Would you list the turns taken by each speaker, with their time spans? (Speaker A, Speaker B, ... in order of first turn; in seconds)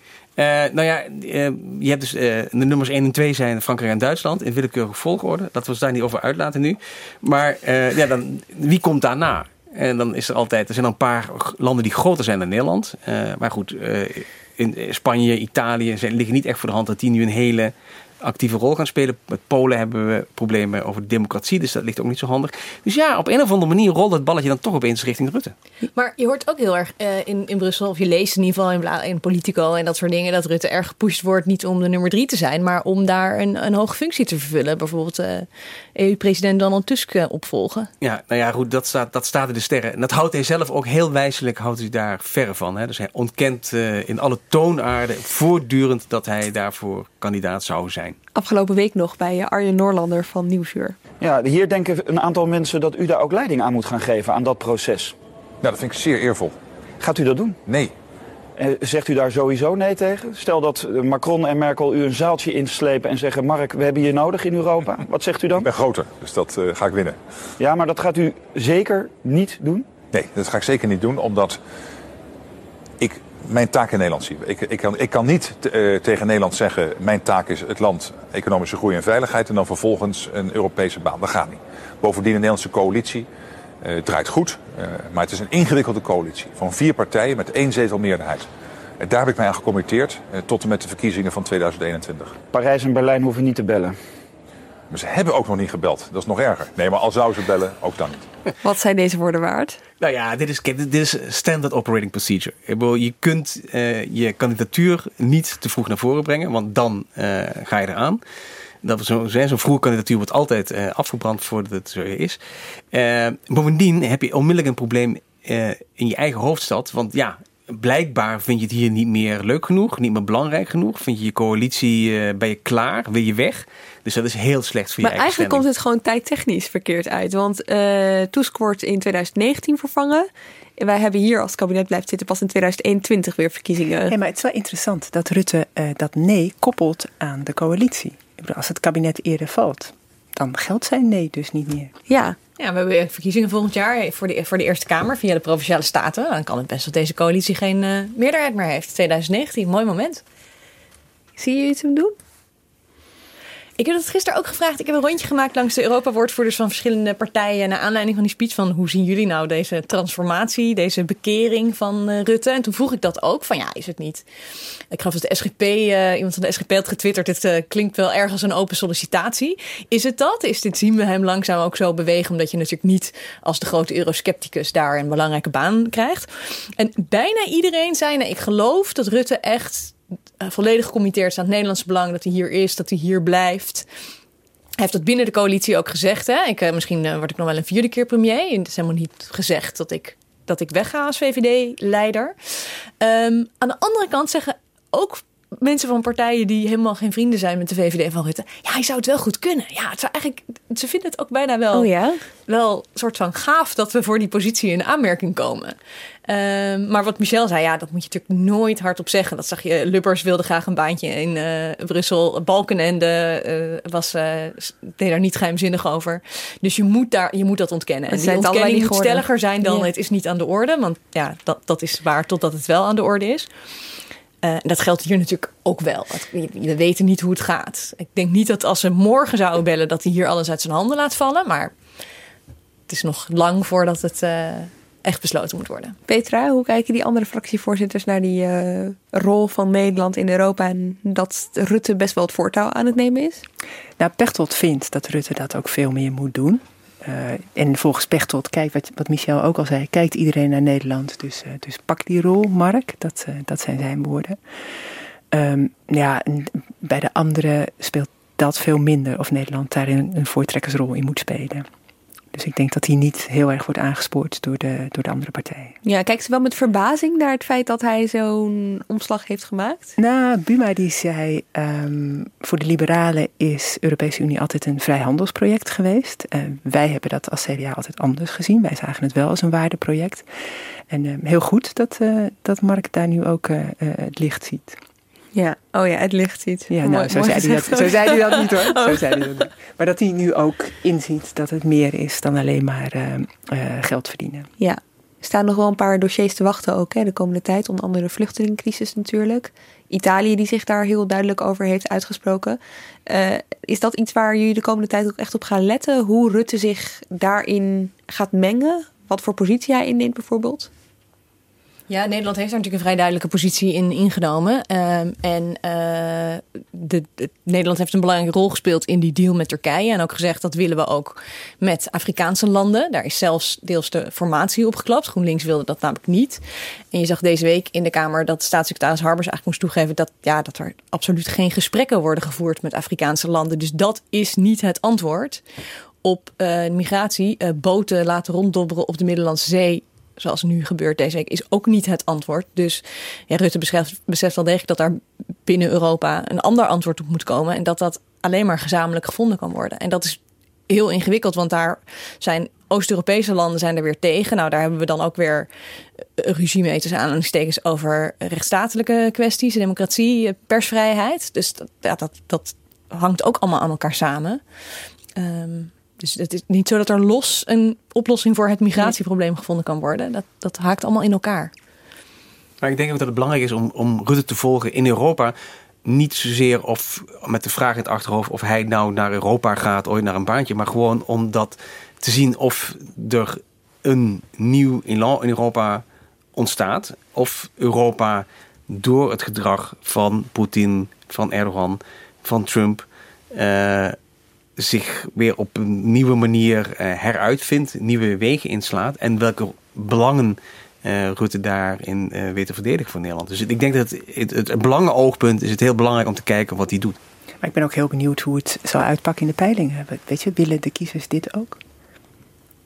Speaker A: 0.4-25.5, 38.0-48.2, 100.0-108.2, 108.8-112.4, 112.9-125.7, 372.6-385.8, 386.4-394.0, 394.6-407.0
Speaker B: 25.9-37.9, 142.6-150.2, 153.8-164.2, 164.9-183.9, 184.8-201.9, 202.5-205.8, 206.3-223.5, 224.4-231.7, 232.9-236.0, 311.9-326.4, 326.9-335.4, 336.0-350.2, 350.7-355.5, 356.2-364.4, 365.2-371.5
Speaker C: 48.4-51.0, 98.6-99.8, 125.0-134.2, 142.1-142.4, 151.4-152.2, 201.7-202.2, 218.1-219.9, 236.1-243.4, 265.8-269.9, 285.3-289.2, 294.6-310.7
Speaker D: 51.2-55.2, 57.0-57.6, 58.6-65.7, 67.6-69.9, 92.5-94.0
Speaker E: 55.6-56.5, 57.7-57.9, 65.6-67.2, 70.1-71.6, 73.0-83.3, 83.8-88.5, 89.0-92.4, 94.9-98.3
Speaker F: 134.1-141.9, 244.0-254.4, 255.3-261.7, 262.3-265.8, 270.0-280.3, 280.9-284.8, 286.7-294.5, 407.4-411.6